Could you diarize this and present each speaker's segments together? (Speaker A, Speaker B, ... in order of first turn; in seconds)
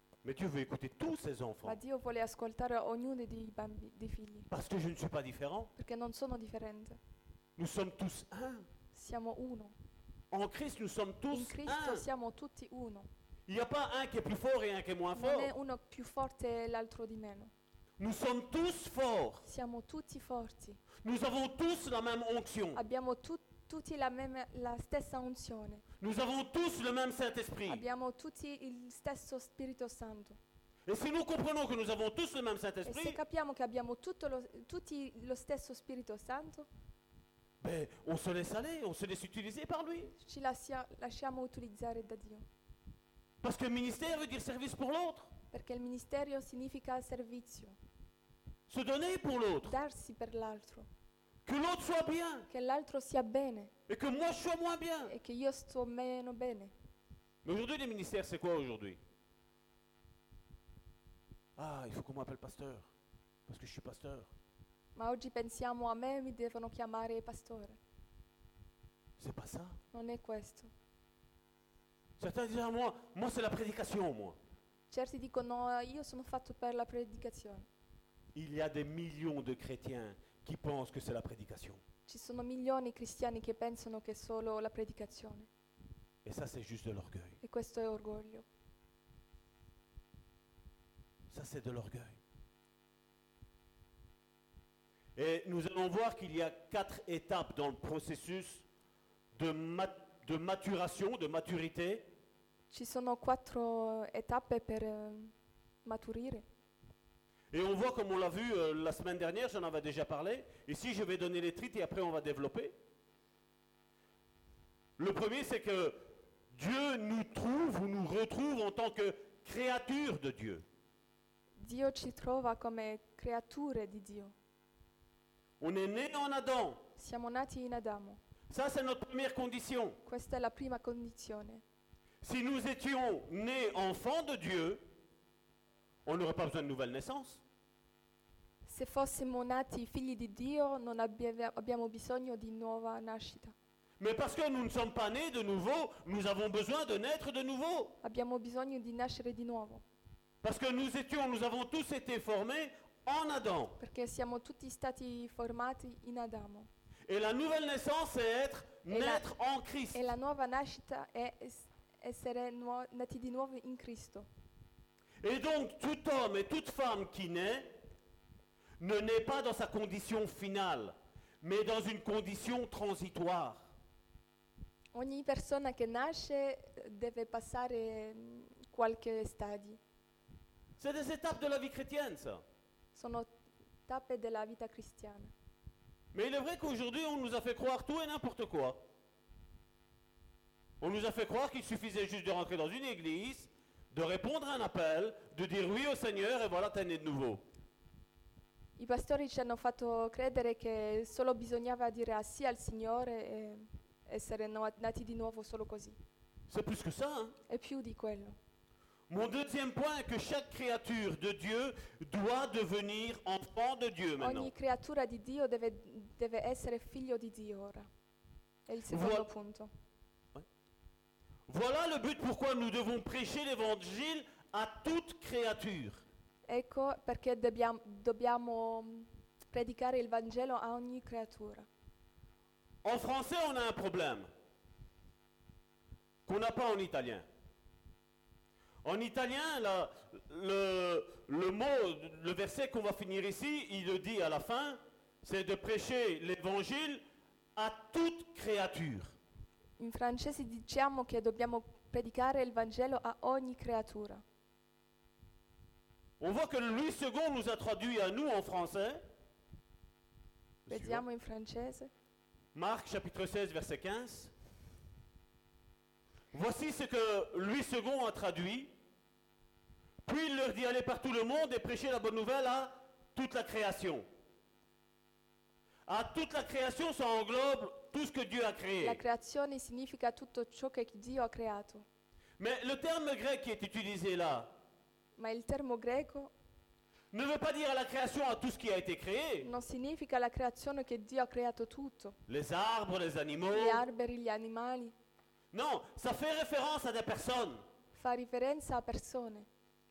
Speaker A: 0.2-1.8, 4.5-5.7, 7.6-8.7, 10.3-12.1, 13.5-15.5, 18.0-19.4, 20.9-22.8, 26.0-27.9, 30.9-33.2, 37.6-40.1, 43.4-45.3, 48.7-49.8, 51.4-52.5, 53.9-55.1, 57.4-59.0, 61.5-62.9, 63.5-64.3, 69.2-69.8, 72.2-74.4, 78.3-81.8, 86.2-87.4, 91.3-92.2, 95.2-98.6, 99.3-102.1, 107.5-112.7, 115.0-120.6, 125.6-126.8, 128.5-130.0, 132.2-134.8, 136.0-137.4, 144.0-148.0, 150.4-153.8, 157.1-160.0, 165.2-167.7, 168.8-173.7, 180.8-182.4, 186.1-188.8, 190.8-197.4, 206.5-207.3, 209.1-214.5, 218.9-219.3, 221.5-226.0, 232.8-234.3, 236.2-237.3, 238.8-247.0, 247.6-249.1, 256.2-259.0, 260.6-261.0, 262.5-264.3, 266.3-268.7, 270.0-274.1, 275.9-279.0, 282.4-284.5, 287.1-289.5, 292.3-293.8, 295.5-297.6
Speaker B: 1.6-4.5, 5.8-7.0, 8.9-9.7, 11.3-13.1, 15.1-17.5, 19.4-20.8, 22.7-25.8, 27.7-30.4, 32.8-36.7, 40.2-42.5, 45.5-47.8, 49.6-50.9, 52.5-53.7, 55.1-56.7, 65.0-67.8, 69.9-70.7, 74.9-77.7, 82.1-85.5, 87.4-88.5, 102.7-105.3, 105.8-106.4, 121.6-124.3, 127.0-128.2, 130.0-131.6, 138.7-143.5, 148.0-149.8, 153.8-156.7, 158.9-159.2, 159.9-164.3, 174.9-179.8, 182.9-183.3, 183.9-185.3, 198.8-206.0, 207.5-208.4, 214.2-217.9, 218.7-219.7, 226.5-231.7, 249.8-254.2, 260.7-261.9, 278.8-281.8, 285.2-286.3, 289.4-292.2, 293.5-294.9, 297.9-299.5